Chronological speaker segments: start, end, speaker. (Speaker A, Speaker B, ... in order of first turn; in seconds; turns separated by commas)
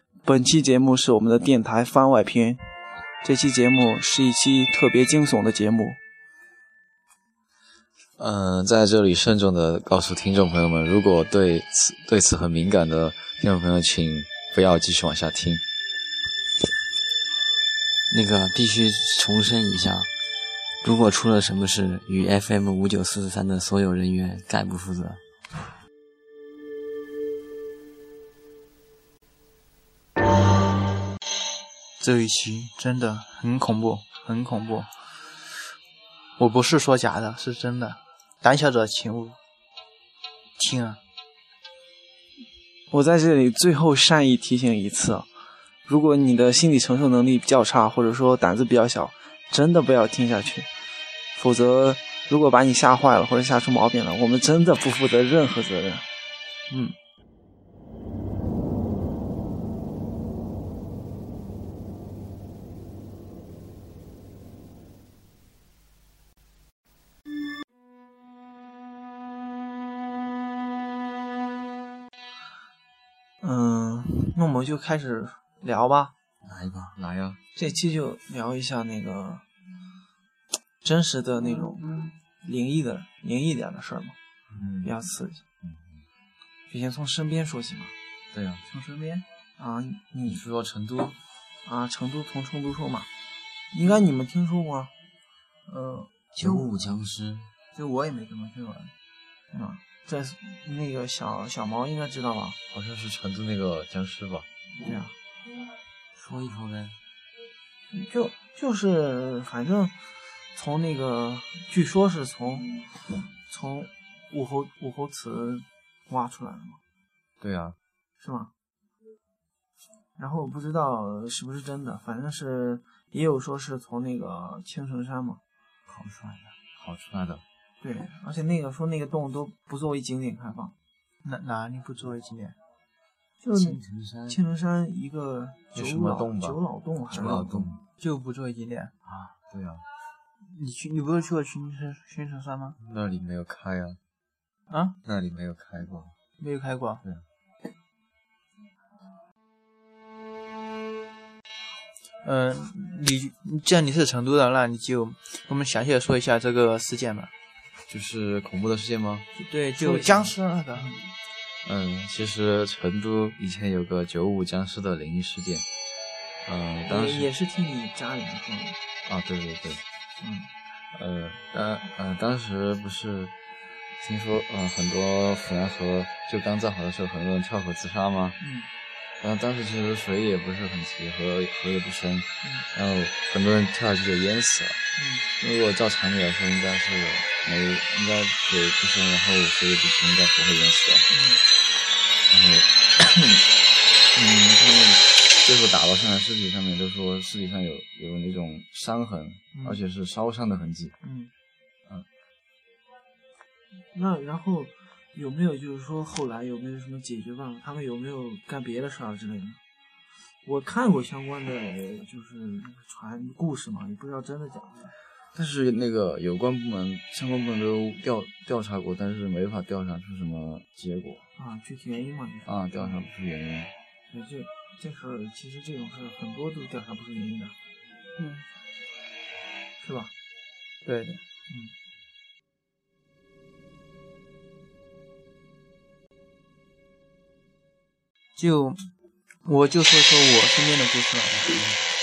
Speaker A: 0.2-2.6, Speaker A: 3.2-6.0, Speaker B: 8.2-15.6, Speaker C: 18.1-20.1, Speaker C: 20.8-25.2, Speaker D: 32.0-34.9, Speaker D: 36.4-39.4, Speaker D: 40.6-41.0, Speaker A: 42.9-45.3, Speaker A: 45.9-50.7, Speaker A: 51.3-56.0, Speaker A: 73.4-76.1, Speaker C: 76.4-77.0, Speaker B: 77.0-77.4, Speaker A: 77.6-79.5, Speaker A: 80.8-81.9, Speaker A: 82.4-84.2, Speaker B: 84.5-85.0, Speaker A: 84.8-85.4, Speaker B: 85.6-86.0, Speaker A: 86.7-87.9, Speaker B: 88.3-88.6, Speaker D: 88.7-89.2, Speaker A: 89.6-90.4, Speaker B: 90.3-91.2, Speaker A: 91.7-93.1, Speaker A: 93.7-94.9, Speaker D: 95.7-96.7, Speaker C: 96.4-97.5, Speaker D: 97.7-98.9, Speaker A: 99.5-102.6, Speaker B: 102.7-104.5, Speaker A: 104.8-105.2, Speaker C: 106.1-107.0, Speaker A: 107.9-110.0, Speaker A: 110.5-116.8, Speaker B: 117.4-117.8, Speaker A: 118.2-118.5, Speaker A: 120.2-125.4, Speaker C: 125.9-126.5, Speaker B: 126.8-127.4, Speaker A: 127.8-130.7, Speaker D: 131.2-132.6, Speaker A: 133.4-137.5, Speaker C: 133.7-134.3, Speaker B: 135.7-136.6, Speaker B: 137.1-137.8, Speaker C: 137.4-137.7, Speaker D: 138.0-138.9, Speaker C: 139.1-139.3, Speaker B: 139.5-139.8, Speaker D: 140.4-142.8, Speaker B: 142.8-144.0, Speaker D: 144.7-145.0, Speaker B: 145.0-146.1, Speaker D: 146.4-147.0, Speaker D: 152.2-157.3, Speaker B: 157.9-159.3, Speaker A: 159.3-161.0, Speaker D: 159.4-161.0, Speaker B: 161.6-165.7, Speaker B: 166.4-167.3, Speaker A: 166.9-168.8, Speaker B: 169.0-169.8, Speaker A: 170.2-170.5, Speaker B: 170.9-173.3, Speaker B: 174.0-178.4, Speaker A: 178.4-178.7, Speaker B: 179.2-184.8, Speaker A: 184.9-185.2, Speaker B: 185.4-191.1, Speaker A: 191.1-191.4, Speaker B: 192.3-193.4, Speaker B: 194.1-200.9, Speaker A: 199.5-199.8, Speaker A: 201.0-201.3, Speaker A: 203.9-209.6, Speaker A: 210.4-214.9, Speaker B: 215.3-221.2, Speaker A: 221.4-223.1, Speaker B: 222.4-223.7, Speaker A: 224.1-227.6, Speaker D: 228.2-228.4, Speaker A: 229.8-230.1, Speaker D: 230.8-231.2, Speaker A: 231.5-231.7, Speaker D: 238.3-238.9, Speaker D: 239.4-241.6